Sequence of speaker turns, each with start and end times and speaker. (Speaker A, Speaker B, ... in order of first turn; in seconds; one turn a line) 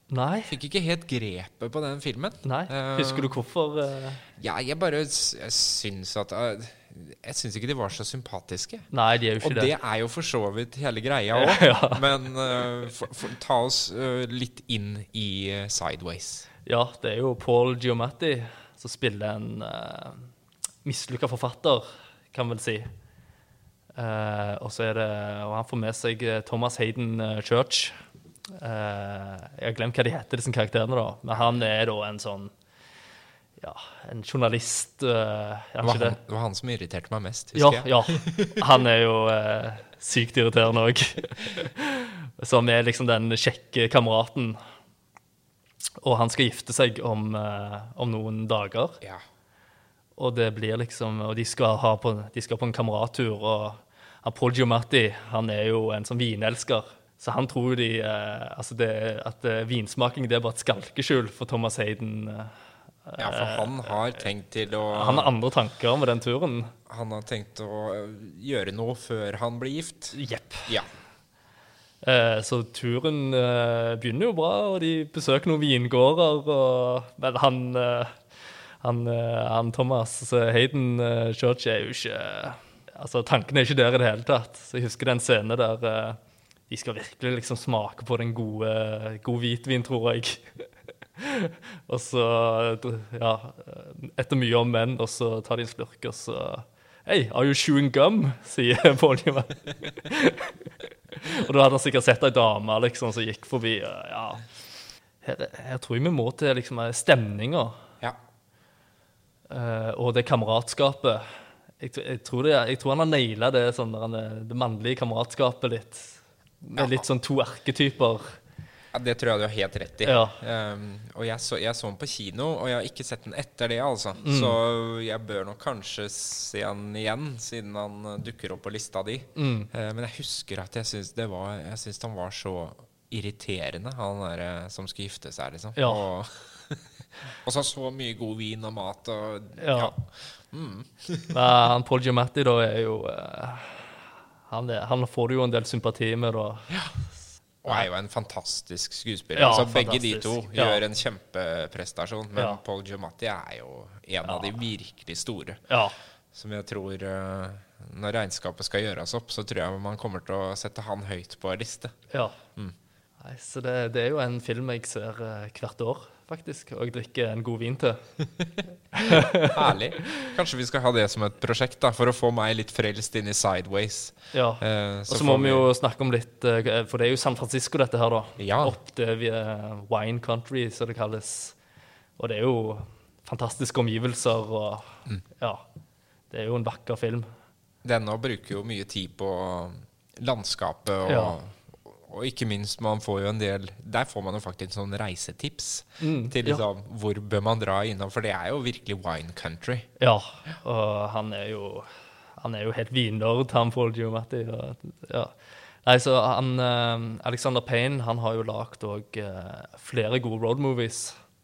Speaker A: 0.1-0.6
Speaker B: 0.5-3.4
Speaker A: 2.4-4.2
Speaker B: 4.4-8.9
Speaker A: 8.9-9.8
Speaker B: 9.4-16.5
Speaker A: 11.3-12.0
Speaker A: 16.6-20.3
Speaker A: 20.8-22.9
Speaker A: 23.9-28.0
Speaker A: 28.5-32.5
Speaker B: 31.3-31.7
Speaker A: 33.6-36.2
Speaker B: 35.8-38.7
Speaker A: 37.5-44.6
Speaker A: 46.0-49.0
Speaker A: 50.2-64.2
Speaker B: 63.2-65.3
Speaker A: 64.9-66.7
Speaker B: 66.9-70.2
Speaker A: 70.1-70.8
Speaker A: 72.0-78.2
Speaker A: 78.8-90.6
Speaker A: 91.2-104.4
Speaker A: 105.2-107.8
Speaker A: 109.5-118.4
Speaker B: 116.8-117.0
Speaker B: 118.9-136.9
Speaker A: 120.0-120.4
Speaker A: 124.2-124.6
Speaker A: 129.3-129.7
Speaker A: 135.8-136.0
Speaker B: 137.4-141.4
Speaker A: 139.6-139.9
Speaker A: 141.3-147.0
Speaker B: 147.6-155.6
Speaker A: 149.3-150.8
Speaker A: 152.3-152.6
Speaker A: 154.2-154.5
Speaker A: 155.7-155.9
Speaker B: 156.3-161.9
Speaker A: 162.1-162.4
Speaker A: 163.2-168.1
Speaker A: 168.9-170.3
Speaker B: 169.0-175.7
Speaker A: 174.3-181.6
Speaker B: 178.4-178.8
Speaker A: 182.2-185.6
Speaker A: 186.3-187.3
Speaker B: 187.8-199.9
Speaker A: 191.0-191.4
Speaker A: 196.0-196.6
Speaker A: 200.0-211.2